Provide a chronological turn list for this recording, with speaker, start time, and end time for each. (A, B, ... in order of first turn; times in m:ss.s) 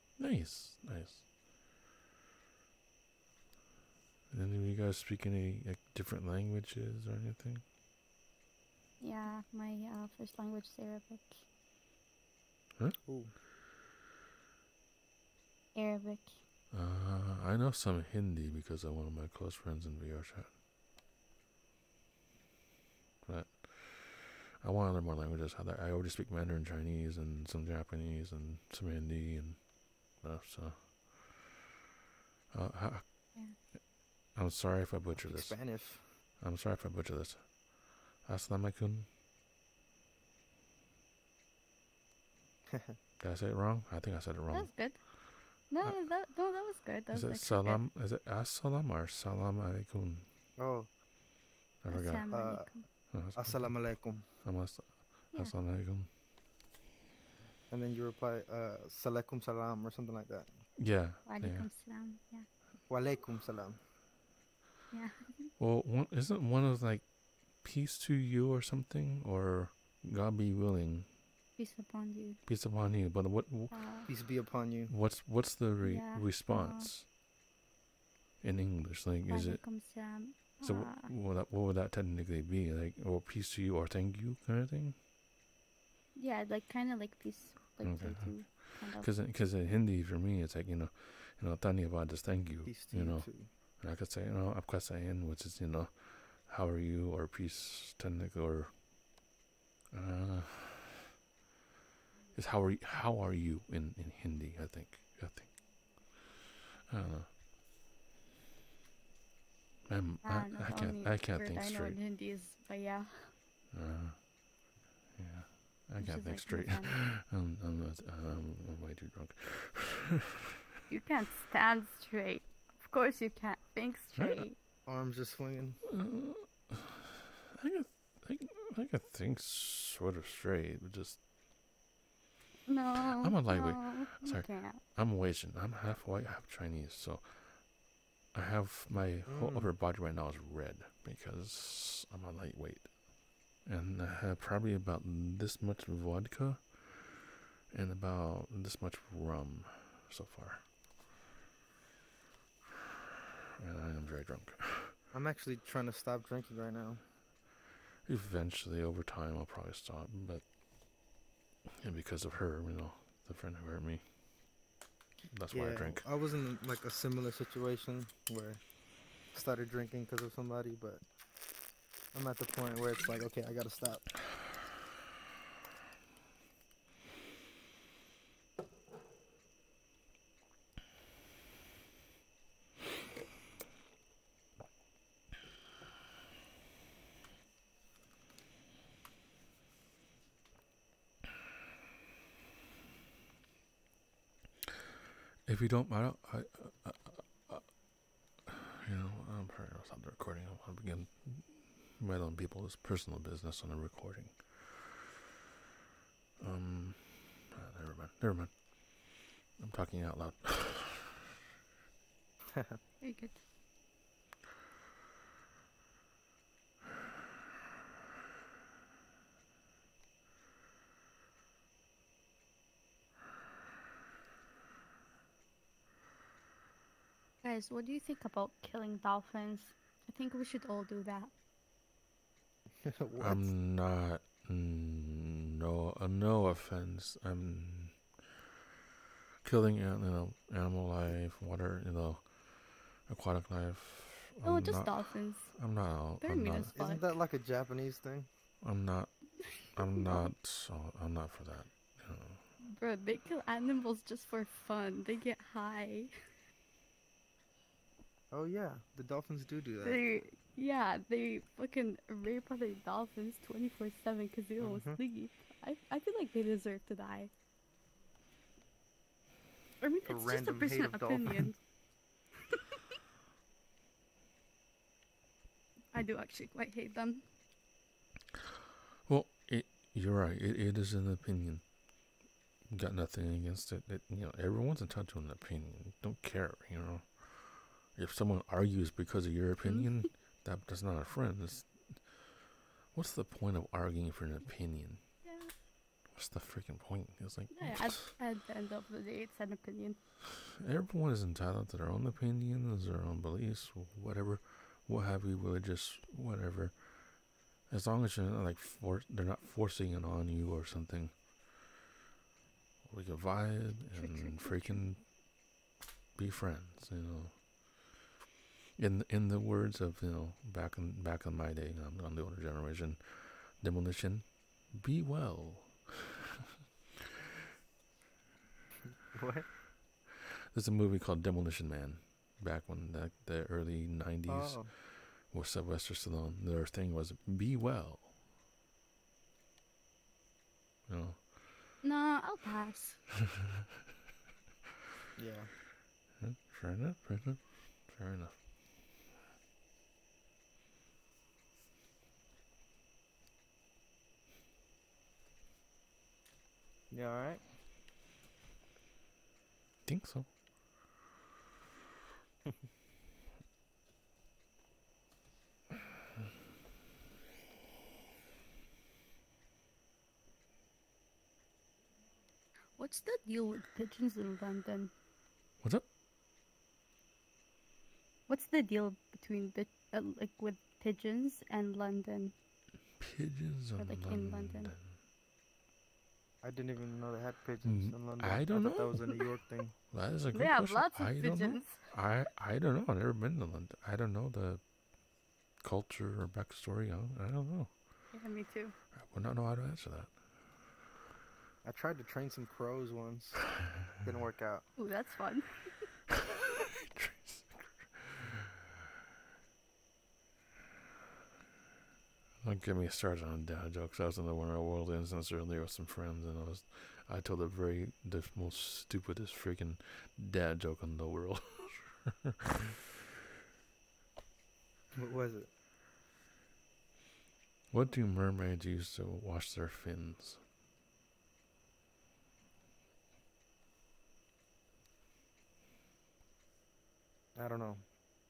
0:00.2-0:01.2 A
0:04.3-0:07.6 A
0:09.0-0:11.4 B
0:13.0-0:13.3 C
0:15.7-0:16.4 B
0:16.7-0:20.6 A
0:23.2-0:31.5 A
0:32.5-0:33.8 A
0:34.3-0:39.1 A
0:35.1-0:36.2 C
0:42.7-0:43.0 C
0:43.2-0:44.9 A
0:44.5-0:47.8 B
0:47.1-0:50.3 A
0:50.6-0:50.9 C
0:51.8-0:52.3 A
0:51.9-0:53.1 B
0:52.3-0:54.3 C
0:53.1-0:56.1 A
0:55.3-0:55.6 B
0:57.7-1:00.6 C
1:00.7-1:01.7 A
1:01.2-1:02.5 B
1:02.9-1:03.8 C
1:04.9-1:05.5 B
1:05.6-1:11.1 A
1:11.6-1:12.4 B
1:12.4-1:13.7 A
1:13.7-1:14.1 B
1:14.0-1:14.9 C
1:14.9-1:17.1 A
1:15.8-1:16.9 B
1:18.4-1:25.0 A
1:19.2-1:21.1 B
1:26.1-1:29.1 B
1:27.8-1:38.8 A
1:32.6-1:33.5 C
1:39.9-1:41.0 A
1:42.3-1:46.2 A
1:46.9-1:47.3 A
1:49.8-1:52.0 A
1:50.2-1:53.3 B
1:53.7-2:00.3 A
1:56.0-1:57.0 B
2:00.9-2:04.6 B
2:04.1-2:04.4 A
2:04.8-2:05.8 C
2:05.8-2:11.2 A
2:12.6-2:14.8 B
2:13.2-2:30.7 A
2:19.2-2:19.7 C
2:33.6-2:35.0 A
2:35.1-2:37.0 C
2:38.0-2:41.1 A
2:41.8-2:44.1 A
2:45.3-2:46.1 A
2:45.5-2:51.0 C
2:52.1-2:54.0 C
3:15.4-3:24.8 A
3:26.4-3:31.2 A
3:33.0-3:33.4 B
3:47.4-3:51.3 B
3:52.8-3:53.5 C
3:53.2-3:58.3 A
3:59.4-4:06.7 A
4:04.4-4:07.1 B
4:06.7-4:08.3 C
4:08.6-4:12.4 A
4:10.0-4:10.3 B
4:12.6-4:16.1 B
4:18.3-4:20.0 C
4:19.8-4:27.3 B
4:24.6-4:25.0 C
4:29.8-4:31.6 B
4:30.0-4:31.5 C
4:35.9-4:37.2 B
4:39.0-4:42.1 A
4:42.7-4:52.4 A
4:49.6-4:50.1 B
4:52.9-4:55.1 A
4:55.2-4:55.5 B
4:56.1-4:58.0 A
4:57.5-5:00.0 B
5:00.5-5:11.2 A
5:12.8-5:15.1 A
5:13.9-5:14.9 B
5:16.1-5:17.8 A
5:18.8-5:26.2 A
5:29.1-5:29.5 C
5:30.5-5:38.1 A
5:34.2-5:34.7 C
5:40.9-5:41.3 A
5:41.8-5:43.0 B
5:45.2-5:45.5 C
5:46.1-5:48.4 A
5:56.9-5:57.4 C
5:59.8-6:00.3 A
6:12.8-6:14.9 B
6:15.6-6:15.9 A
6:18.3-6:22.4 B
6:23.0-6:24.9 A
6:23.8-6:24.7 B
6:26.4-6:29.7 C
6:27.6-6:29.2 A
6:29.9-6:37.8 A
6:30.0-6:31.9 B
6:38.1-6:38.7 B
6:38.9-6:40.2 A
6:41.6-6:44.6 C
6:44.8-6:45.7 B
6:46.8-6:48.5 A
6:52.4-7:02.8 A
7:04.9-7:05.5 C
7:07.7-7:10.4 A
7:17.3-7:17.8 C